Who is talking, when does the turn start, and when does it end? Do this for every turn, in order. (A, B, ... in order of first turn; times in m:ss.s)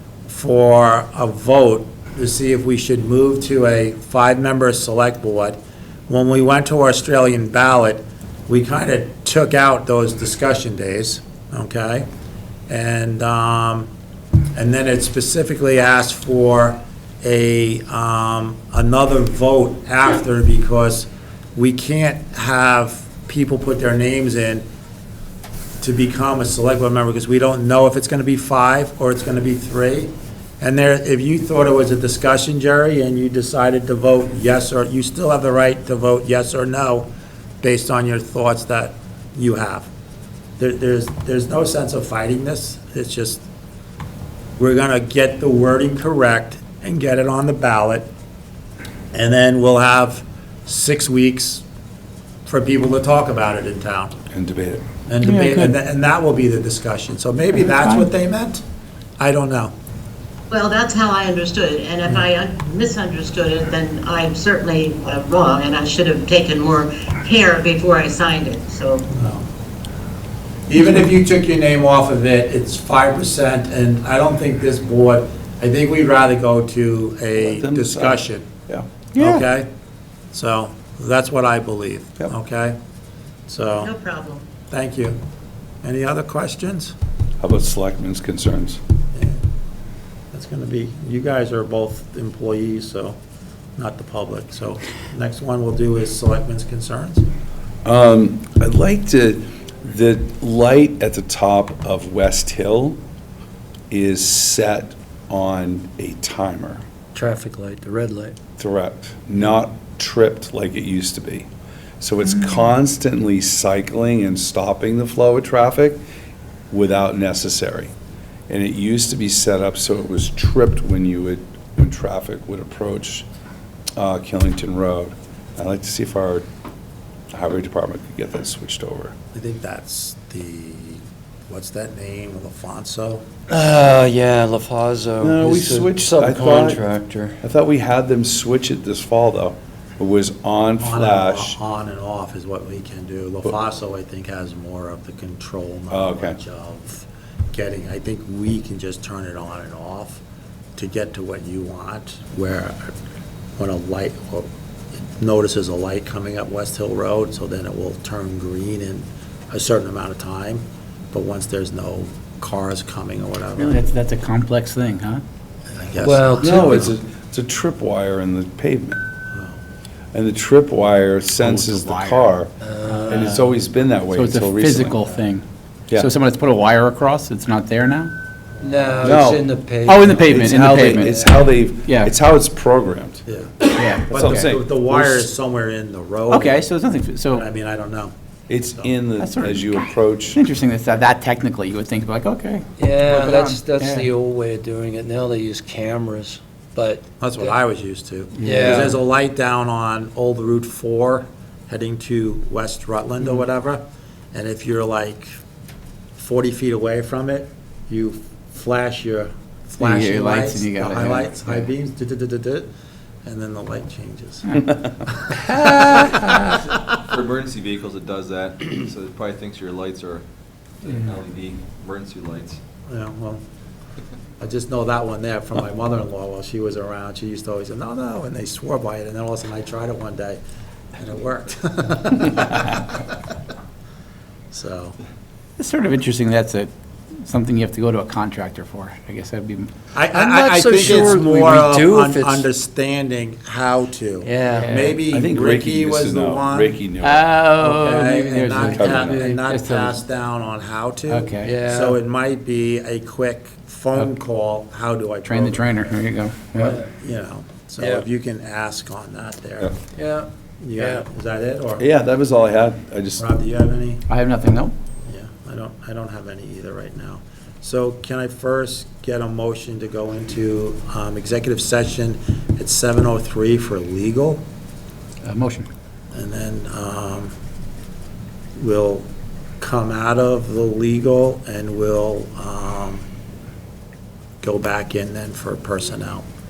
0:00.3-0:12.1 A
0:12.7-0:13.9 A
0:14.5-0:24.6 A
0:25.8-0:37.1 A
0:37.6-0:39.9 A
0:40.6-0:43.4 A
0:44.6-0:48.1 A
0:49.1-0:51.6 A
0:52.5-0:54.2 A
0:54.3-0:54.8 B
0:55.1-0:58.6 A
0:55.2-0:55.7 C
0:57.6-0:58.1 C
0:59.2-0:59.7 A
1:00.5-1:09.0 D
1:09.1-1:09.5 A
1:10.7-1:18.5 A
1:17.4-1:19.3 B
1:19.2-1:19.7 A
1:20.3-1:22.8 A
1:23.5-1:23.9 A
1:23.8-1:24.5 D
1:24.7-1:25.2 A
1:25.8-1:26.9 A
1:27.4-1:28.8 B
1:29.1-1:29.4 A
1:30.3-1:33.2 A
1:33.8-1:37.2 A
1:37.8-1:43.0 B
1:43.9-1:46.8 B
1:47.1-1:48.4 E
1:48.6-1:51.5 B
1:52.0-1:56.0 B
1:56.7-1:57.9 B
1:58.5-2:03.3 B
2:04.0-2:06.4 B
2:07.3-2:09.2 B
2:09.3-2:13.2 A
2:13.5-2:17.4 E
2:15.2-2:16.8 B
2:17.4-2:21.6 B
2:20.8-2:30.2 A
2:25.9-2:26.4 B
2:30.8-2:32.9 A
2:33.6-2:34.5 A
2:35.0-2:43.8 A
2:43.6-2:45.2 C
2:45.7-2:46.9 A
2:46.0-2:46.9 E
2:46.4-2:49.0 B
2:49.3-2:49.6 A
2:50.1-2:52.5 B
2:51.4-2:52.3 C
2:52.6-2:53.4 E
2:53.0-2:55.0 B
2:53.1-2:53.4 C
2:54.1-2:58.1 C
2:58.6-3:01.1 E
2:59.0-2:59.5 B
2:59.8-3:01.3 C
3:00.2-3:03.2 B
3:01.8-3:02.1 C
3:03.3-3:06.7 A
3:03.7-3:04.5 C
3:04.1-3:05.2 B
3:06.3-3:07.4 C
3:07.3-3:08.1 A
3:08.5-3:10.4 B
3:09.2-3:14.1 C
3:12.8-3:17.1 E
3:17.2-3:25.3 A
3:18.4-3:18.9 C
3:18.4-3:18.9 E
3:18.4-3:18.9 B
3:26.2-3:32.7 A
3:29.8-3:31.7 C
3:33.2-3:35.4 A
3:35.6-3:36.4 C
3:36.7-3:40.2 F
3:40.8-3:42.6 F
3:42.9-3:43.4 A
3:44.4-3:50.4 A
3:51.0-3:53.2 A
3:54.5-3:55.0 A
3:55.6-3:56.7 C
3:57.2-3:59.7 C
3:59.9-4:06.8 A
4:00.1-4:02.5 E
4:00.8-4:01.1 C
4:04.2-4:04.7 E
4:04.6-4:05.0 C
4:05.1-4:07.3 B
4:07.0-4:09.8 C
4:07.6-4:15.8 A
4:08.8-4:09.2 B
4:09.0-4:10.0 E
4:11.1-4:11.6 C
4:11.4-4:12.0 E
4:15.2-4:16.8 C
4:16.6-4:19.7 A
4:17.8-4:18.0 E
4:20.0-4:21.1 E
4:20.6-4:21.8 A
4:21.8-4:23.2 B
4:23.2-4:24.0 A
4:24.1-4:24.7 C
4:25.1-4:34.4 A
4:35.2-4:35.7 C
4:36.1-4:37.3 A
4:38.6-4:39.1 A
4:39.6-4:43.0 A
4:44.4-4:46.2 A